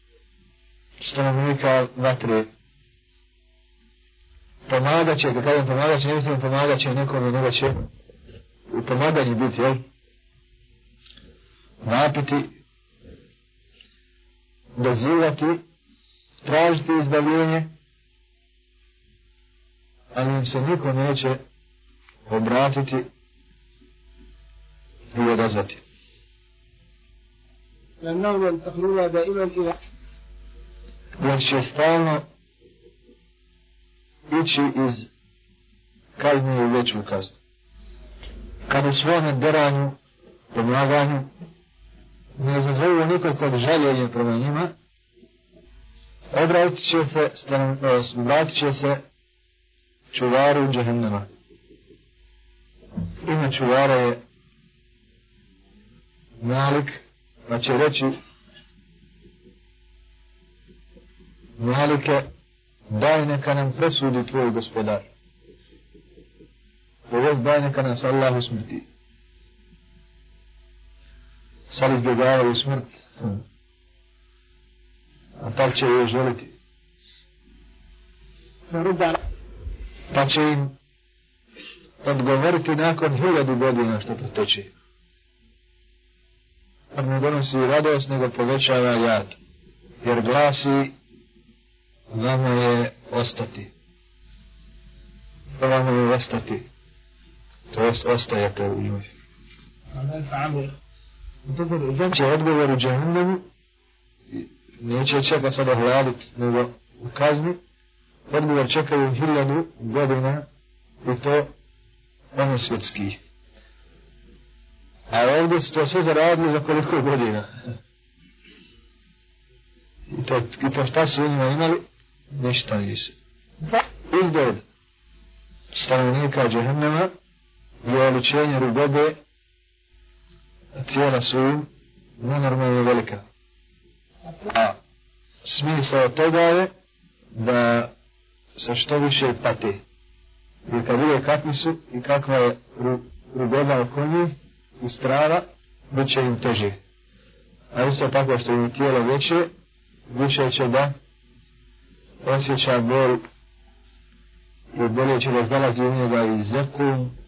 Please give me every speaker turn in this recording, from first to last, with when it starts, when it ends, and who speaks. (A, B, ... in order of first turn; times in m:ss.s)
0:01.0-0:02.5 A
0:04.7-0:07.9 A
0:08.7-0:09.8 A
0:11.8-0:12.5 A
0:14.8-0:15.6 A
0:16.4-0:17.7 A
0:20.1-0:21.4 A
0:22.3-0:23.0 A
0:25.1-0:25.8 A
0:28.0-0:29.8 B
0:31.2-0:32.2 A
0:34.3-0:35.1 A
0:36.2-0:37.3 A
0:38.7-0:40.0 A
0:40.5-0:41.3 A
0:42.4-0:44.7 A
0:46.3-0:49.0 A
0:50.1-0:51.3 A
0:53.2-0:54.2 A
0:56.4-0:58.1 A
1:01.6-1:02.2 A
1:02.9-1:05.0 A
1:07.1-1:08.8 A
1:11.7-1:13.4 A
1:15.4-1:16.5 A
1:18.7-1:19.2 B
1:20.1-1:20.7 A
1:22.0-1:24.7 A
1:26.9-1:29.4 A
1:30.0-1:30.9 A
1:32.1-1:33.7 A
1:35.6-1:36.6 A
1:37.7-1:39.1 A
1:39.9-1:40.8 B
1:41.5-1:43.4 A
1:44.3-1:47.6 A
1:48.3-1:50.5 A
1:51.0-1:51.5 A
1:52.3-1:53.2 A
1:55.1-1:57.5 A
2:00.1-2:03.1 A
2:04.1-2:04.6 A
2:05.7-2:07.1 A
2:07.8-2:09.2 A
2:10.8-2:11.7 A
2:12.2-2:13.2 A
2:14.4-2:14.8 A
2:15.4-2:16.7 A
2:17.3-2:17.9 A
2:18.6-2:19.8 A
2:20.7-2:26.8 A
2:27.7-2:29.5 A
2:30.1-2:30.9 A
2:32.2-2:33.2 A
2:34.7-2:37.1 A